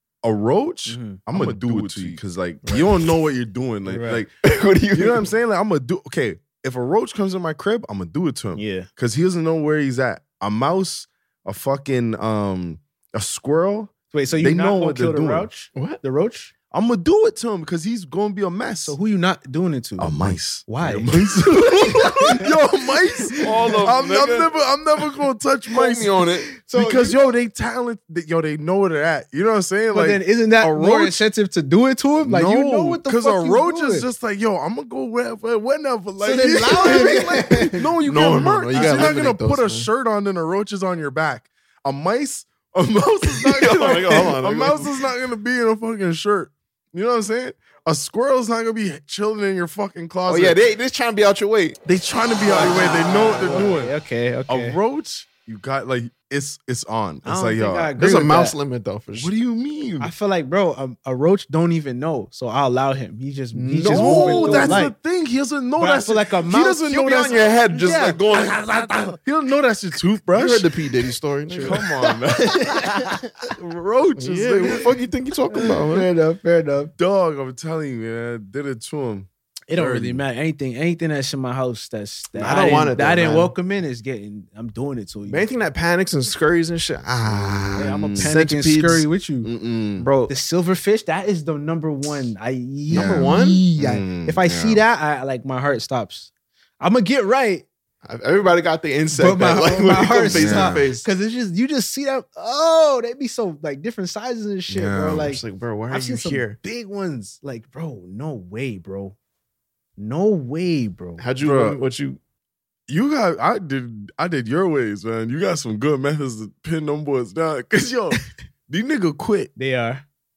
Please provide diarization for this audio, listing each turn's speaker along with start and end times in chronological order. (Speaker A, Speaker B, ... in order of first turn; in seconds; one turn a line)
Speaker A: 0.2-4.3
Speaker B: 0.9-2.9
Speaker B: 3.9-4.2
Speaker C: 4.4-5.3
Speaker A: 4.9-15.5
Speaker B: 8.6-8.9
Speaker B: 14.1-16.5
Speaker C: 15.7-16.0
Speaker A: 16.7-19.0
Speaker B: 18.9-22.5
Speaker A: 20.0-31.2
Speaker C: 23.4-24.5
Speaker C: 25.7-26.5
Speaker B: 26.5-27.3
Speaker B: 29.9-34.1
Speaker A: 32.2-50.6
Speaker B: 36.2-37.9
Speaker C: 38.0-39.9
Speaker B: 38.8-39.1
Speaker C: 43.3-45.0
Speaker C: 50.3-51.8
Speaker A: 51.9-53.9
Speaker B: 52.5-54.8
Speaker A: 54.5-57.9
Speaker B: 57.2-58.5
Speaker C: 58.0-59.3
Speaker A: 59.1-60.1
Speaker B: 60.0-65.0
Speaker C: 63.5-64.8
Speaker A: 63.8-70.7
Speaker B: 65.8-68.2
Speaker C: 66.7-68.6
Speaker C: 70.3-71.9
Speaker B: 71.5-73.2
Speaker A: 71.6-74.9
Speaker C: 74.2-76.1
Speaker B: 75.5-76.9
Speaker A: 77.0-80.2
Speaker B: 79.7-85.5
Speaker A: 82.4-82.9
Speaker C: 82.4-83.5
Speaker C: 85.3-89.1
Speaker A: 87.2-88.3
Speaker B: 87.8-89.5
Speaker A: 89.4-90.1
Speaker C: 90.0-90.3
Speaker B: 90.3-97.7
Speaker C: 92.9-93.6
Speaker A: 92.9-94.8
Speaker C: 98.0-101.1
Speaker B: 99.1-109.2
Speaker A: 100.3-100.9
Speaker A: 104.7-105.3
Speaker C: 105.1-106.6
Speaker B: 110.0-111.2
Speaker C: 111.2-112.2
Speaker A: 111.4-111.8
Speaker A: 112.9-119.5
Speaker B: 119.6-120.0